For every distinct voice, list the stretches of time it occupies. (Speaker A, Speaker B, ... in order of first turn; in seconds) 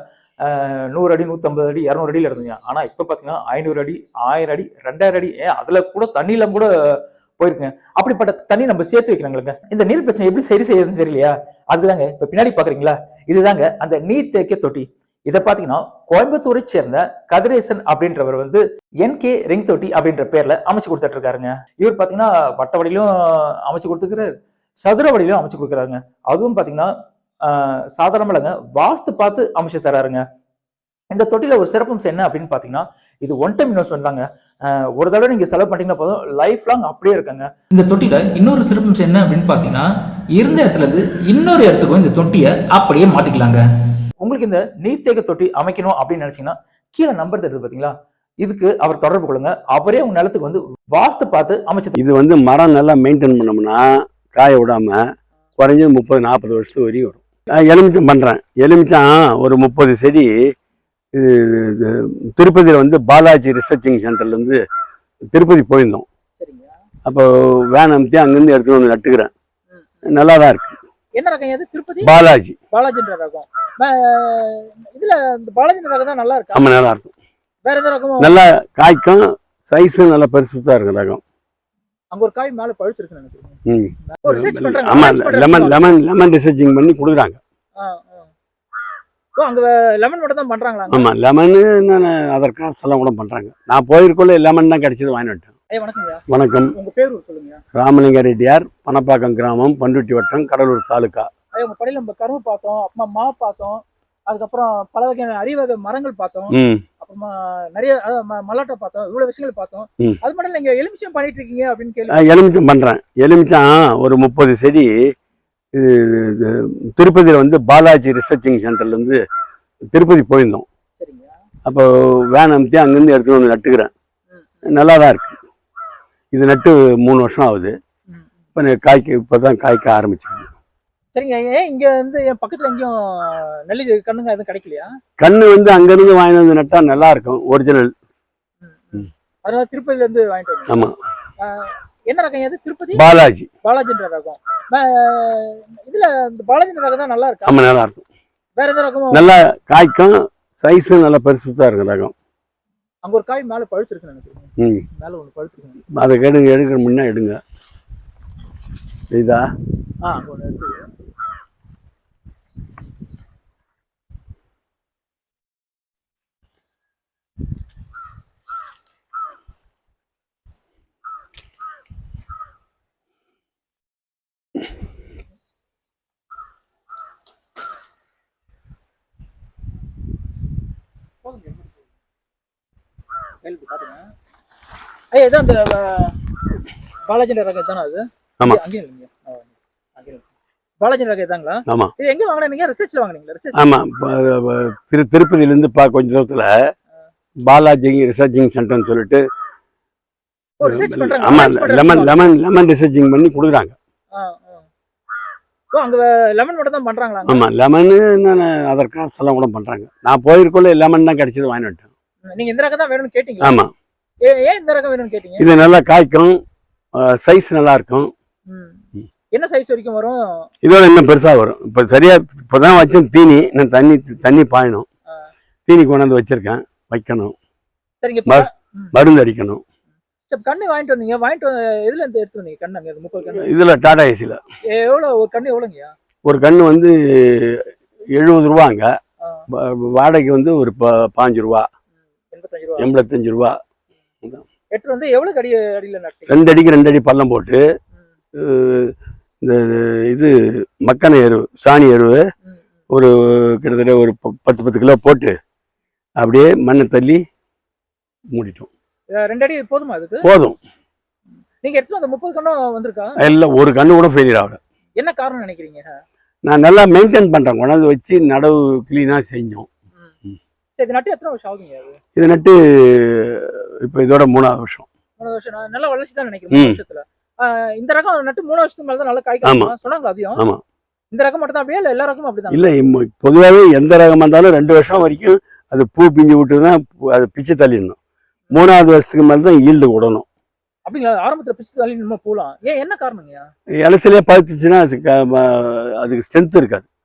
Speaker A: 0.4-26.9, 27.4-30.2, 31.1-43.6, 44.2-52.0
Speaker B: 52.0-55.0, 55.6-60.3, 61.1-64.6, 65.3-66.1, 67.1-69.3, 70.1-70.8, 72.0-72.6, 76.5-77.1, 78.2-81.2, 83.7-87.4, 90.9-95.5, 96.3-96.7, 97.8-101.3, 106.5-106.8, 112.1-114.9, 115.7-119.2, 119.9-120.7, 121.7-123.9, 124.7-125.4, 126.3-127.7, 128.6-130.5, 135.2-137.9, 140.7-141.0, 142.9-143.5, 147.5-148.0, 149.1-152.1, 154.6-154.8, 156.0-157.4, 159.1-159.4, 191.7-191.9, 193.5-196.5, 197.5-199.2, 200.6-203.8, 207.2-211.9, 213.4-213.7, 215.4-216.4, 217.0-218.1, 220.6-224.8, 225.7-227.3, 228.3-229.6, 233.3-234.4, 236.2-238.9, 239.5-241.7, 242.8-243.6, 246.3-247.6, 248.4-250.3, 250.8-252.2, 252.9-255.3, 256.2-257.2, 258.3-258.7, 260.2-260.6, 263.2-264.6, 266.4-269.7, 272.2-274.9, 276.5-276.8, 279.4-279.7, 280.4-280.6, 282.5-288.0, 288.5-290.2, 293.8-296.9
Speaker C: 66.4-66.7, 71.2-72.1, 72.7-76.6, 77.7-78.3, 82.1-83.6, 84.2-85.9, 87.8-88.3, 89.4-91.1, 95.7-96.2, 96.7-97.6, 101.5-112.4, 121.0-121.3, 131.2-134.9, 138.7-140.9, 141.4-143.0, 143.7-147.6, 148.6-149.2, 153.1-154.5, 155.0-155.7, 160.2-160.8, 183.4-184.1, 185.2-189.5, 190.8-193.7, 200.6-202.3, 204.1-204.6, 205.7-207.4, 212.3-213.6, 214.2-215.5, 218.5-218.8, 219.3-220.5, 228.0-228.9, 230.3-233.5, 234.7-235.9, 242.3-242.9, 244.8-246.4, 259.2-260.3, 261.6-263.4, 265.0-265.9, 270.8-272.0, 275.2-280.4, 281.1-282.8, 290.9-293.4